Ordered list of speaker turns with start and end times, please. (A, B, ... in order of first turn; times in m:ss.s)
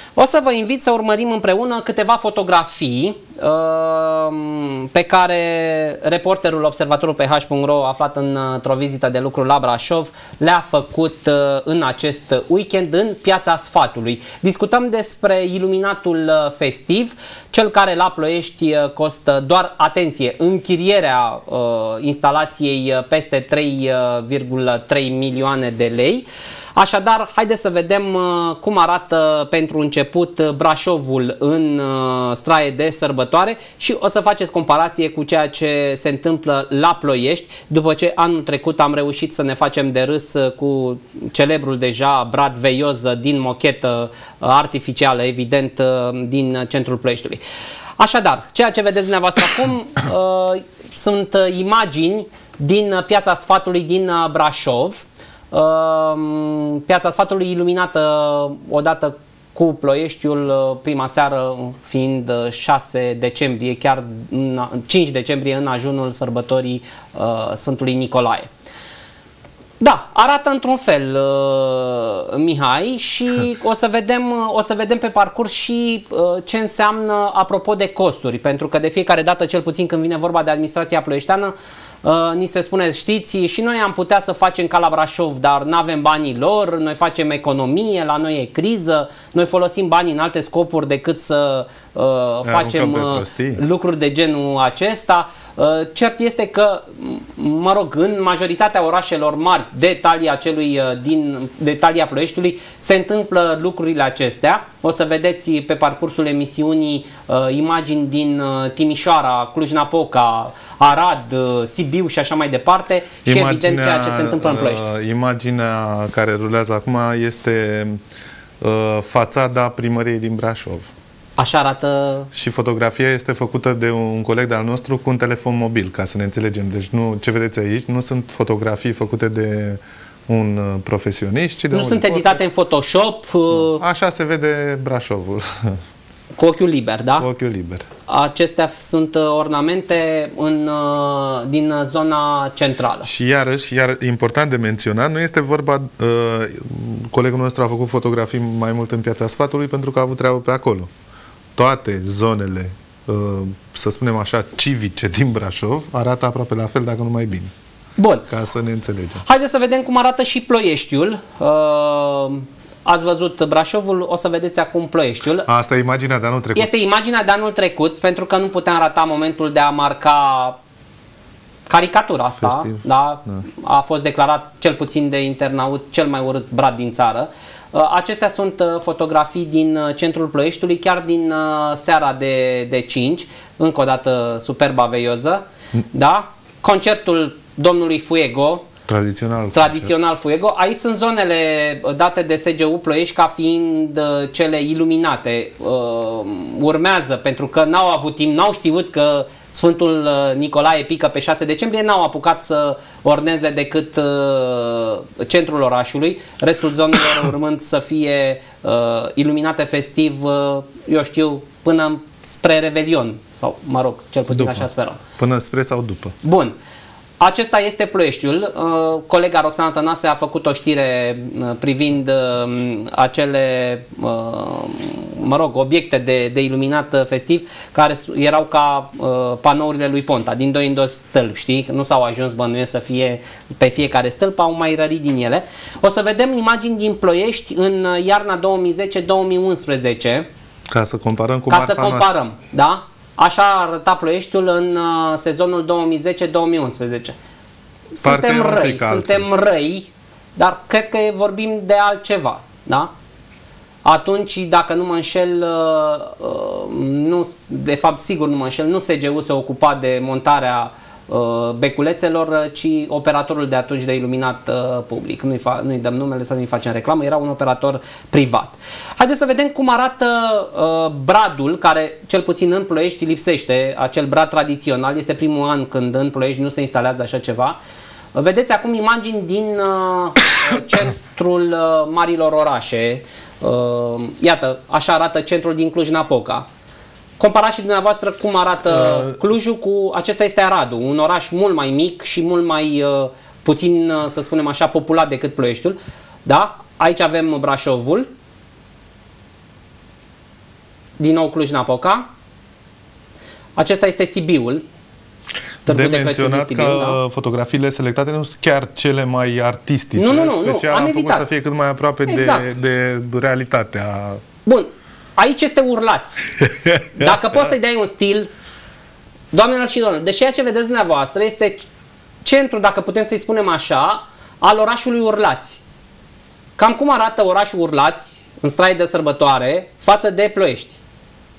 0:00.2-0:47.4 A
0:48.0-1:08.5 A
1:09.8-1:54.9 A
1:32.4-1:33.6 B
1:53.2-1:58.0 B
1:58.6-2:00.9 B
2:01.4-2:02.3 A
2:02.3-2:12.4 B
2:11.7-2:13.8 A
2:13.5-2:15.8 B
2:16.4-2:17.3 A
2:17.2-2:17.9 B
2:18.1-2:23.1 A
2:23.0-2:30.9 B
2:31.6-2:37.5 B
2:38.0-2:38.3 A
2:38.3-2:39.2 B
2:39.2-2:45.5 A
2:45.4-2:46.7 B
2:46.6-2:50.6 A
2:51.7-3:08.7 A
2:52.4-2:53.4 B
3:08.9-3:09.9 B
3:09.5-3:35.0 A
3:34.3-3:34.7 B
3:35.2-3:36.1 B
3:36.2-3:36.6 A
3:37.2-4:00.3 A
4:00.7-4:02.1 B
4:01.5-4:07.2 A
4:08.0-4:12.9 A
4:08.0-4:09.3 B
4:13.8-4:37.6 A
4:38.1-4:46.5 A
4:47.2-4:58.1 A
4:48.7-4:49.2 B
5:01.0-5:02.1 A
5:03.6-5:04.6 A
5:05.7-5:07.0 A
5:05.7-5:14.2 B
5:10.0-5:11.3 A
5:12.1-5:12.4 A
5:14.4-5:16.3 A
5:16.4-5:17.5 B
5:17.0-5:18.3 A
5:19.3-5:21.7 A
5:22.2-5:25.6 A
5:26.6-5:30.8 A